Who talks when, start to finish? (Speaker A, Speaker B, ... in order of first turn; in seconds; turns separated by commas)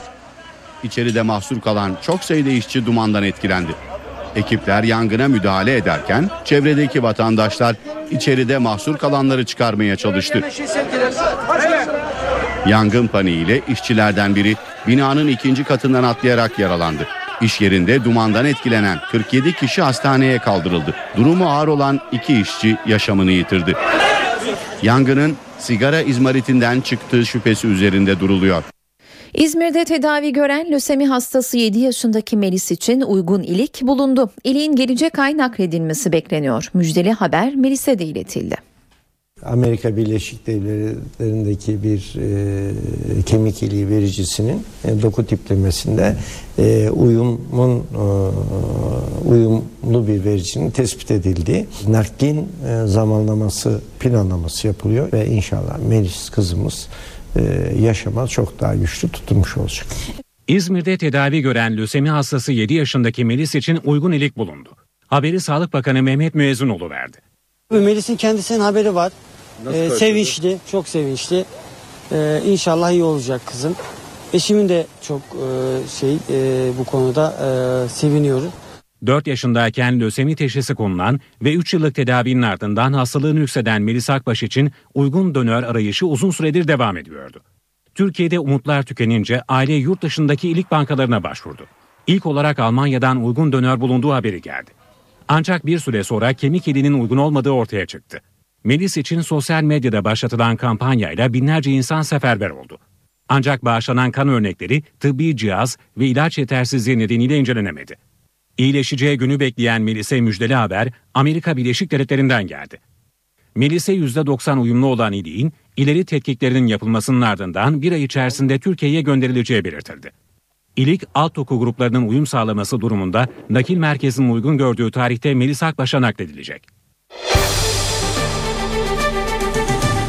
Speaker A: 0.8-3.8, Speaker A: 4.3-10.4, Speaker A: 12.7-23.8, Speaker A: 24.8-28.6, Speaker B: 29.4-38.6, Speaker C: 39.4-59.9, Speaker D: 60.5-67.2, Speaker E: 67.7-69.1, Speaker E: 69.7-71.5, Speaker E: 72.1-73.8, Speaker E: 74.3-78.5, Speaker D: 79.0-87.4, Speaker D: 88.0-94.7, Speaker D: 95.3-108.0, Speaker D: 108.6-112.8, Speaker D: 113.6-120.1, Speaker D: 120.8-126.6